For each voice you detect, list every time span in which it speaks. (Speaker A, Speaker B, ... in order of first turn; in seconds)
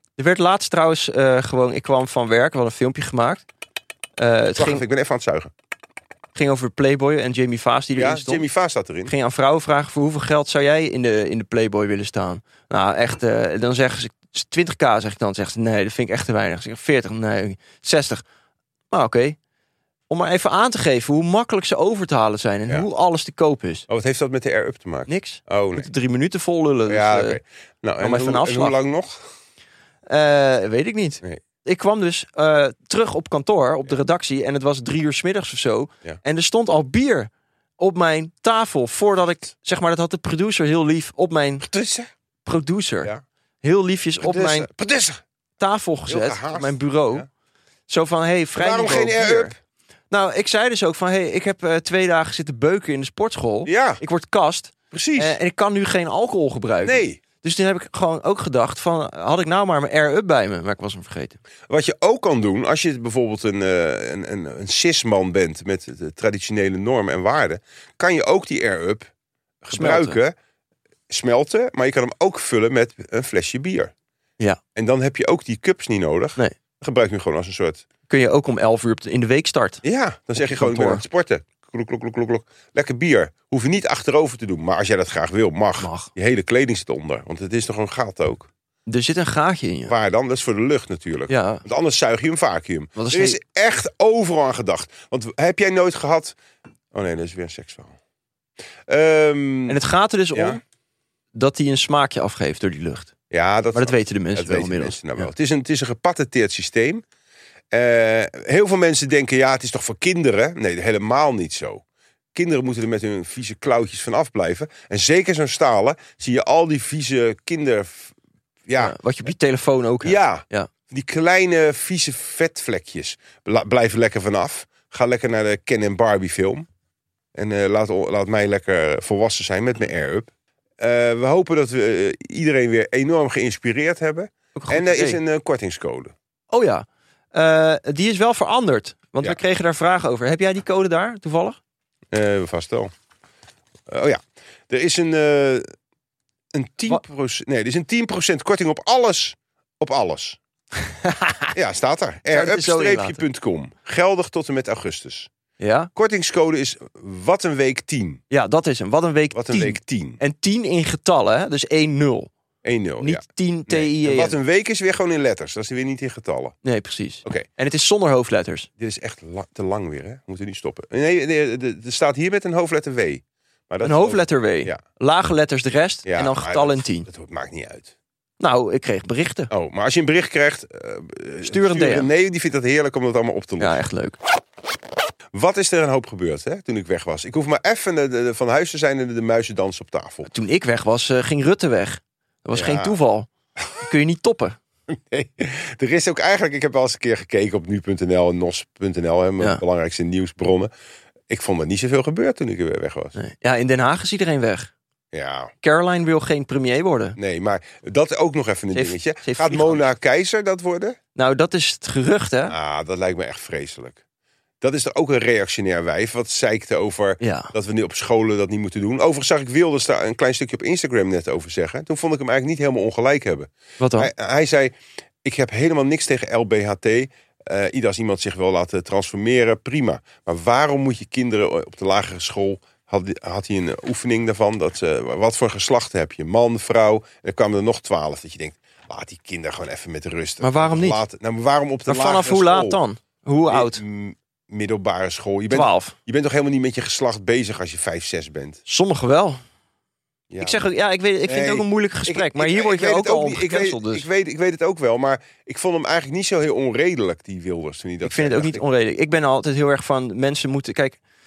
Speaker A: 0.2-3.5, 4.2-4.8, 6.3-8.5, 9.1-18.2, 18.9-19.4, 20.1-23.9, 25.1-27.4, 28.0-28.8, 30.1-41.7, 42.5-43.1, 43.6-44.7, 45.6-47.3, 47.9-49.5, 50.1-61.4, 69.7-70.2, 78.1-79.8, 80.4-81.0, 85.8-86.1, 88.9-89.9, 91.3-91.6, 93.0-93.4, 99.7-100.6, 101.3-103.1, 103.7-105.3, 118.8-120.7, 134.6-135.2, 136.5-141.6, 151.1-151.5, 152.3-153.2, 155.6-155.9, 158.3-162.3, 163.0-164.4, 166.6-168.7, 173.8-177.1, 178.4-179.5, 181.4-182.1, 183.6-184.2, 190.3-193.3, 193.8-194.6, 203.2-204.7, 205.6-207.2, 208.7-209.9, 211.2-212.6, 217.2-217.5, 223.8-224.1, 240.4-241.0, 241.9-243.8, 245.5-245.9, 248.7-249.4, 250.4-254.1, 258.0-261.0
Speaker B: 4.6-5.5, 8.0-9.1, 23.9-25.9, 26.9-29.2, 41.6-42.1, 44.2-45.2, 46.1-47.3, 48.6-49.6, 53.6-54.0, 54.9-55.4, 56.8-57.2, 61.7-69.1, 69.6-70.4, 71.1-73.9, 74.8-77.9, 79.8-88.5, 89.9-96.4, 96.9-98.0, 98.9-99.8, 100.3-100.6, 103.3-107.0, 107.7-111.8, 112.3-118.1, 118.7-119.0, 120.0-126.7, 127.3-136.1, 142.1-142.9, 143.9-145.7, 146.5-150.4, 151.5-155.3, 155.9-158.2, 159.3-160.2, 162.6-166.6, 168.8-174.8, 176.1-177.9, 179.5-183.8, 185.3-190.3, 192.6-192.9, 194.9-200.7, 201.3-203.2, 205.1-205.5, 207.2-211.0, 212.5-214.0, 214.6-242.8, 243.5-248.6, 250.3-250.6, 251.3-258.6